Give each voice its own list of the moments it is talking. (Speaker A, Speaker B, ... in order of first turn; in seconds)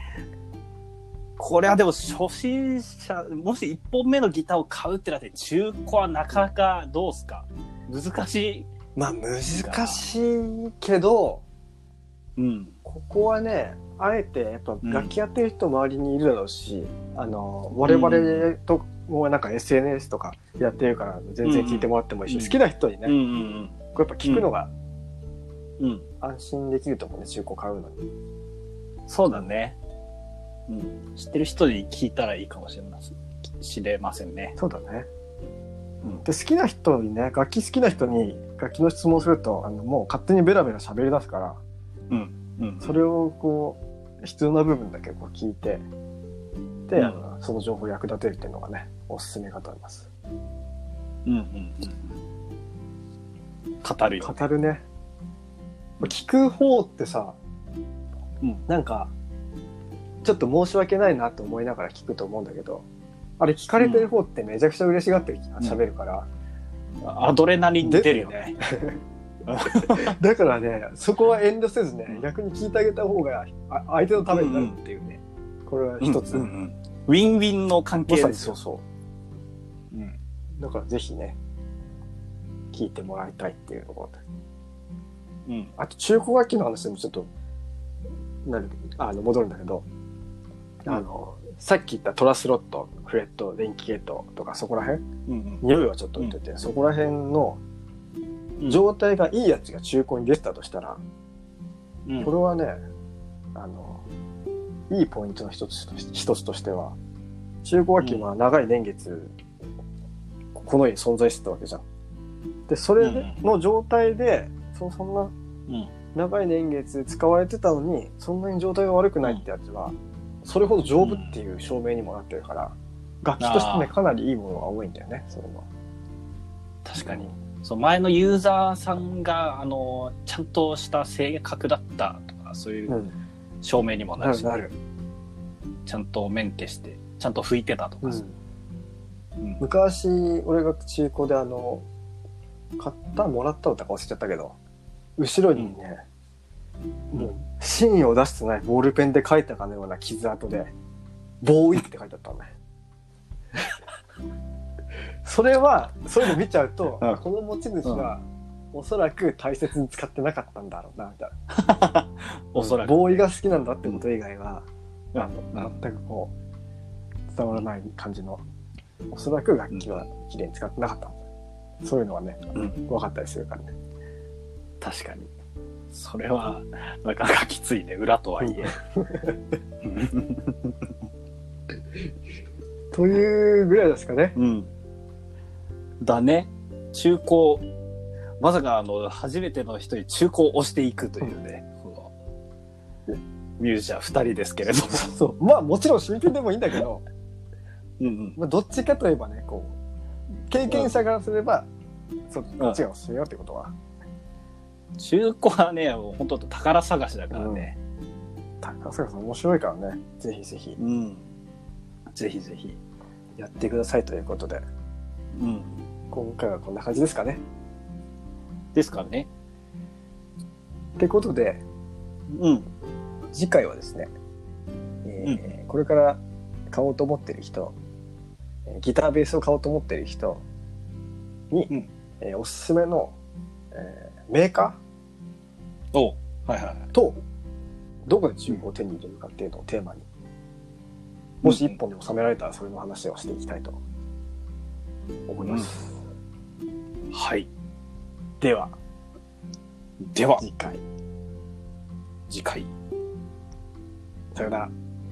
Speaker A: 1.4-8.7, 9.5-10.1, 12.4-12.8, 14.8-15.1, 17.9-18.5, 21.4-24.5, 25.8-26.1, 29.1-29.8, 30.7-34.6, 42.1-43.0, 47.0-47.2, 51.3-52.1, 53.8-54.5, 63.8-64.1, 67.0-68.6, 69.5-70.2, 74.2-74.8, 76.0-78.5, 85.5-85.7, 95.3-95.6, 102.1-102.3, 108.0-108.3, 113.0-113.4, 115.7-115.9, 121.0-121.3, 123.4-123.9, 126.8-133.0, 133.6-134.7, 135.9-138.2, 157.8-158.1, 161.5-163.3, 165.1-165.8, 169.7-170.1, 172.6-172.8, 174.8-175.3, 175.9-178.8, 179.8-180.9, 184.4-184.7, 186.0-187.6, 188.4-192.1, 193.6-195.1, 198.0-198.4, 205.0-207.8, 210.8-211.3, 212.1-212.8, 215.3-215.9, 218.8-219.3, 222.3-222.7, 225.2-225.6, 235.9-236.9, 241.4-241.8, 245.4-245.8, 247.1-247.5, 250.0-250.4, 252.3-252.7
Speaker B: 9.0-11.4, 12.9-23.1, 23.9-24.7, 26.2-28.0, 34.6-35.1, 36.1-41.6, 42.8-45.9, 46.9-50.1, 54.2-54.8, 56.0-57.4, 58.7-59.1, 60.2-62.9, 63.4-66.3, 67.8-69.0, 69.8-76.5, 78.1-78.8, 80.6-81.4, 82.7-84.2, 85.8-87.3, 88.4-89.9, 90.8-95.0, 95.6-97.6, 98.7-101.0, 102.2-102.8, 103.5-104.0, 104.9-107.0, 107.6-109.4, 110.5-111.8, 112.7-115.3, 116.1-125.7, 127.0-127.3, 132.9-133.1, 134.2-134.7, 138.0-138.3, 139.6-141.9, 142.8-144.6, 145.2-146.0, 147.1-150.7, 151.4-152.5, 155.2-161.3, 162.6-166.3, 167.3-168.4, 169.1-171.2, 171.8-173.7, 178.4-179.4, 182.9-184.4, 194.9-197.0, 198.4-199.8, 200.5-201.7, 202.3-203.7, 207.3-207.7, 208.6-210.8, 213.4-214.6, 216.1-217.4, 221.0-221.6, 223.3-224.1, 225.0-227.8, 228.7-230.4, 231.5-233.1, 233.7-234.8, 236.9-237.2, 238.1-240.1, 241.4-243.8, 245.3-246.0, 248.4-248.8, 250.4-250.8, 254.3-254.7